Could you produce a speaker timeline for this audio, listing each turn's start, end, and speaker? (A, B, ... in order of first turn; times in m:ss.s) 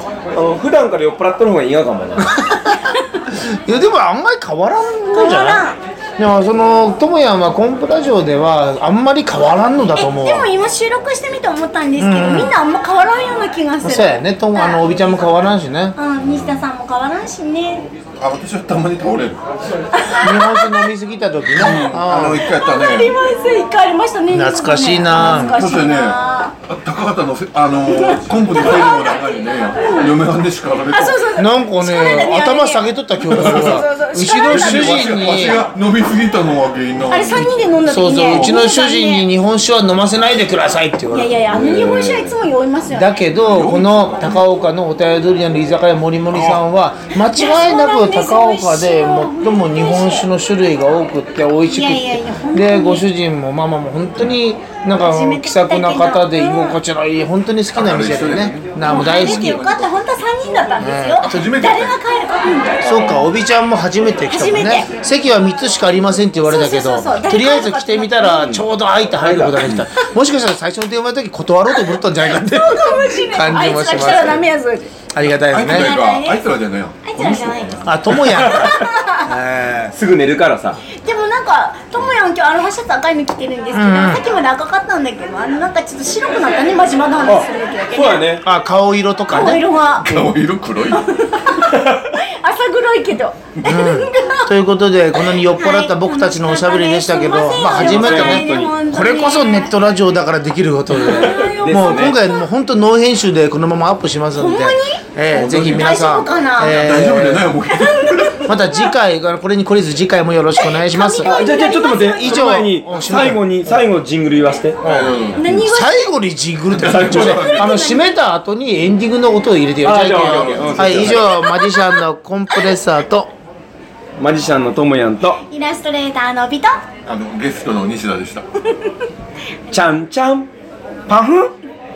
0:00.3-0:02.4 A
0:02.3-0:05.6 B
0:02.3-0:03.2 C
0:05.1-0:05.8 C
0:06.2-0:10.5 B
0:09.9-0:14.8 C
0:12.0-0:12.5 B
0:13.8-0:16.0 B
0:16.0-0:17.9 C
0:18.2-0:19.4 D
0:20.0-0:20.8 C
0:20.2-0:22.4 B
0:21.5-0:23.1 D
0:22.4-0:26.5 C
0:24.3-0:25.6 B
0:25.2-0:31.3 D
0:27.8-0:30.1 C
0:30.9-0:35.1 C
0:31.4-0:35.7 B
0:33.3-0:37.6 D
0:37.0-0:39.3 C
0:37.3-0:41.3 B
0:38.2-0:38.5 D
0:41.1-0:43.2 C
0:41.5-0:42.4 A
0:42.9-0:59.5 B
0:43.3-0:44.5 D
0:46.3-0:46.6 D
0:47.3-0:50.3 C
0:51.4-0:53.0 C
0:55.0-0:56.8 C
0:57.8-1:00.0 D
0:58.8-1:03.3 C
1:00.8-1:01.6 B
1:01.2-1:02.0 D
1:02.8-1:14.5 B
1:04.3-1:04.9 C
1:06.4-1:08.6 C
1:09.2-1:09.9 D
1:11.8-1:14.9 C
1:15.1-1:15.9 B
1:15.5-1:18.0 D
1:15.6-1:16.5 C
1:17.0-1:19.3 C
1:17.8-1:19.9 B
1:18.3-1:18.8 A
1:19.9-1:20.8 A
1:21.0-1:28.2 C
1:23.7-1:24.2 B
1:27.2-1:28.4 A
1:28.4-1:29.6 B
1:29.3-1:30.3 C
1:30.0-1:31.2 D
1:30.9-1:34.5 C
1:31.7-1:32.1 A
1:33.6-1:47.6 B
1:35.2-1:39.7 C
1:37.7-1:38.7 A
1:40.9-1:42.2 A
1:41.0-1:42.4 C
1:44.3-1:46.9 C
1:45.3-1:48.5 D
1:47.7-1:48.4 C
1:48.4-1:51.3 B
1:50.6-1:52.6 C
1:51.2-1:54.8 A
1:51.9-1:53.9 B
1:54.8-1:55.8 D
1:54.8-2:03.3 B
1:55.3-1:56.1 C
1:56.7-1:57.9 D
1:56.9-1:57.5 A
1:57.4-1:58.1 C
1:59.8-2:01.3 A
2:00.5-2:01.0 D
2:01.0-2:02.0 C
2:04.2-2:05.4 A
2:05.5-2:06.8 C
2:07.0-2:08.4 D
2:09.7-2:10.5 A
2:11.1-2:11.5 A